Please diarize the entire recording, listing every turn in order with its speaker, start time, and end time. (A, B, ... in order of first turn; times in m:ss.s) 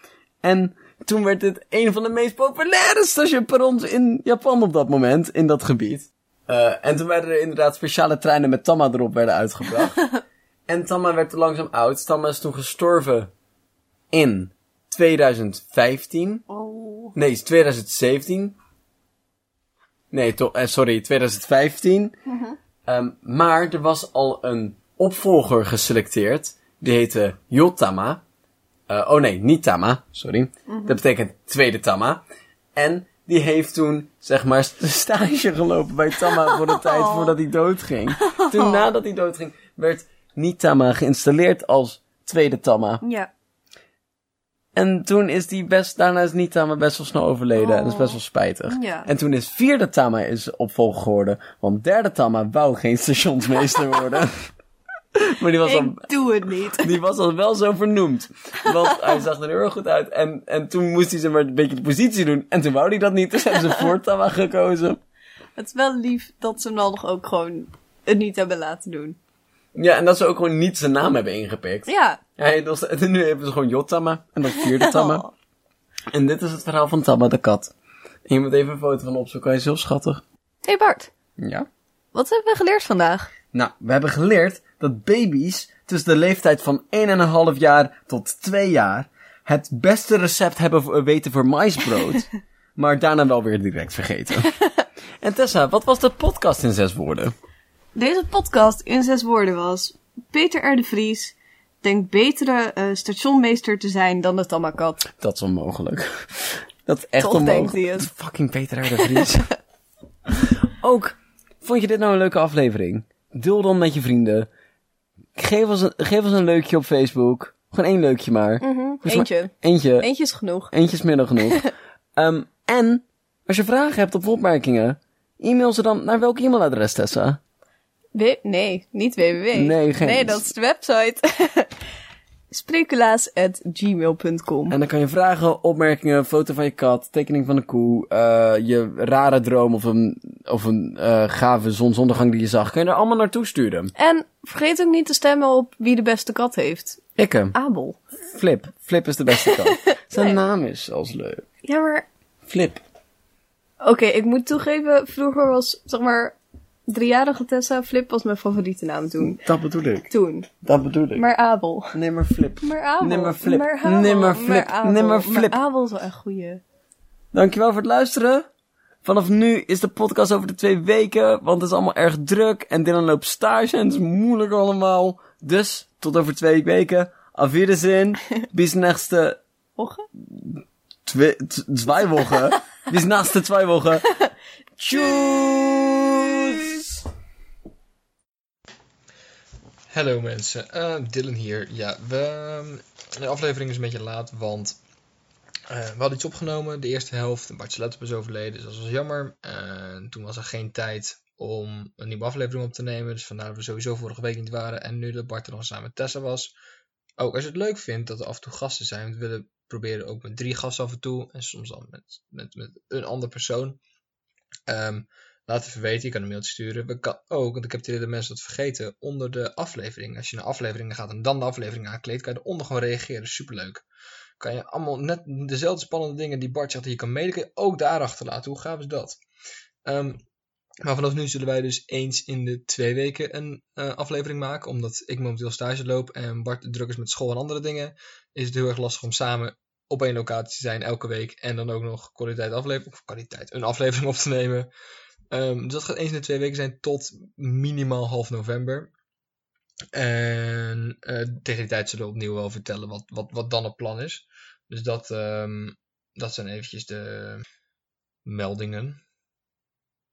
0:00.4-0:10.0 A
0:10.7-0:13.3 A
0:14.1-0:16.4 A
0:16.5-0:17.1 B
0:17.2-0:18.6 A
0:20.1-0:22.1 A
0:22.3-0:22.6 B
0:22.9-0:28.2 A
0:28.9-0:32.2 A
0:30.7-0:31.0 B
0:32.8-0:43.0 A
0:36.5-0:37.4 B
0:38.2-0:38.8 B
0:43.0-0:43.3 B
0:44.8-0:54.4 A
0:47.6-0:49.1 B
0:55.2-0:56.1 A
0:55.6-0:56.9 B
0:56.8-1:05.0 A
1:05.6-1:09.2 B
1:09.8-1:15.2 A
1:11.9-1:12.2 B
1:14.6-1:15.3 B
1:16.1-1:17.7 A
1:18.3-1:20.2 A
1:20.6-1:21.1 B
1:21.4-1:21.7 A
1:22.1-1:23.3 B
1:23.5-1:34.5 A
1:35.2-1:37.4 A
1:38.0-1:45.0 B
1:45.1-1:49.5 A
1:47.2-1:48.1 B
1:48.9-1:49.5 B
1:50.3-1:54.5 A
1:55.4-2:00.1 A
1:58.6-2:00.7 B
2:00.7-2:01.6 A
2:01.4-2:01.7 B
2:02.2-2:07.4 A
2:08.1-2:11.8 B
2:09.5-2:10.4 A
2:12.5-2:14.8 B
2:14.7-2:23.9 A
2:24.0-2:27.0 B
2:27.2-2:27.6 A
2:27.5-2:28.0 B
2:28.3-2:31.4 A
2:29.4-2:30.4 B
2:31.6-2:32.1 B
2:32.5-2:32.8 A
2:33.8-2:36.4 B
2:36.9-2:39.4 B
2:39.4-2:40.1 A
2:40.1-2:40.5 B
2:40.6-2:41.2 A
2:41.2-2:42.0 B
2:41.9-2:45.6 A
2:42.6-2:46.6 B
2:47.3-2:48.5 A
2:49.0-2:59.4 A
2:59.8-3:00.0 B
3:00.3-3:04.1 A
3:04.8-3:07.0 A
3:09.9-3:14.8 C
3:15.7-3:26.5 C
3:27.2-3:33.8 C
3:34.7-3:43.8 C
3:44.4-3:49.2 C
3:49.9-3:50.2 C
3:50.8-4:04.7 C
4:05.3-4:08.9 C
4:09.9-4:17.4 C
4:18.3-4:19.0 C